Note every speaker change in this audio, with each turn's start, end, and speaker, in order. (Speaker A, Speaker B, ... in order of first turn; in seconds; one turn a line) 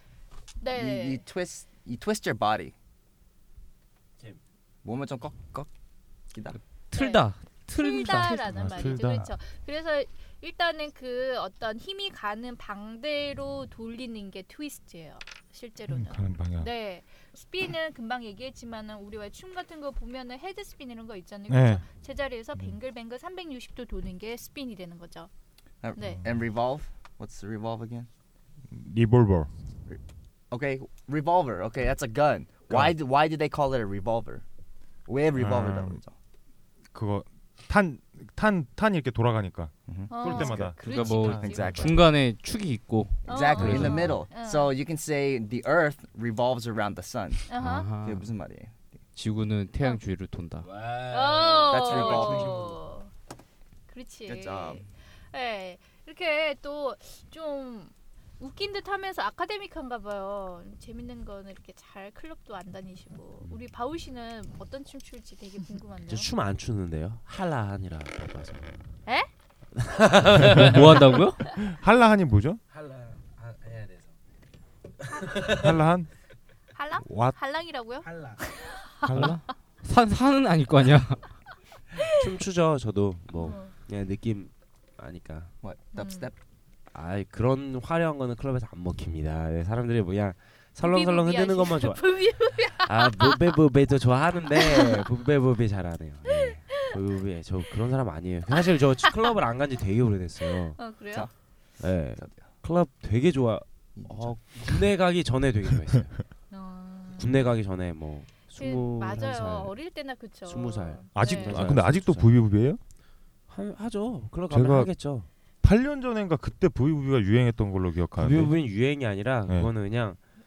Speaker A: 0.6-1.2
Speaker B: 0.7-2.7
Speaker B: 4.8-5.7
Speaker B: 6.3-6.6
Speaker C: 6.9-8.8
Speaker A: 6.9-25.3
Speaker D: 8.3-9.3
Speaker D: 15.9-16.7
Speaker D: 21.5-21.8
Speaker B: 25.8-28.1
Speaker A: 25.9-26.2
Speaker D: 28.7-29.5
Speaker B: 30.5-34.4
Speaker D: 32.7-33.0
Speaker B: 35.0-36.1
Speaker D: 35.3-36.0
Speaker D: 36.9-40.8
Speaker B: 39.9-42.0
Speaker A: 40.1-41.7
Speaker C: 40.8-44.0
Speaker D: 41.5-41.9
Speaker B: 43.2-48.7
Speaker A: 43.3-44.7
Speaker D: 43.6-44.1
Speaker A: 47.5-47.9
Speaker C: 47.6-48.3
Speaker C: 49.1-50.7
Speaker E: 50.6-52.7
Speaker A: 51.1-53.1
Speaker B: 51.7-52.7
Speaker A: 53.9-66.3
Speaker B: 54.3-54.8
Speaker E: 66.1-68.7
Speaker E: 69.7-71.2
Speaker C: 70.5-71.4
Speaker D: 71.6-72.6
Speaker E: 72.7-74.1
Speaker E: 75.1-75.7
Speaker D: 75.5-76.1
Speaker A: 76.7-79.3
Speaker D: 77.0-77.3
Speaker E: 78.1-78.4
Speaker D: 79.0-79.4
Speaker C: 79.1-81.3
Speaker E: 82.0-85.5
Speaker A: 83.3-83.7
Speaker B: 85.6-86.3
Speaker A: 85.9-86.3
Speaker E: 86.9-100.8
Speaker A: 90.8-93.6
Speaker A: 94.6-95.0
Speaker A: 96.3-96.9
Speaker A: 100.8-101.3
Speaker E: 101.8-106.2
Speaker B: 102.2-102.5
Speaker B: 104.0-104.5
Speaker A: 106.5-107.3
Speaker E: 107.2-109.8
Speaker A: 108.5-111.6
Speaker E: 110.5-112.3
Speaker D: 111.1-112.8
Speaker E: 113.5-115.3
Speaker D: 114.5-114.9
Speaker D: 115.6-118.5
Speaker E: 118.2-120.2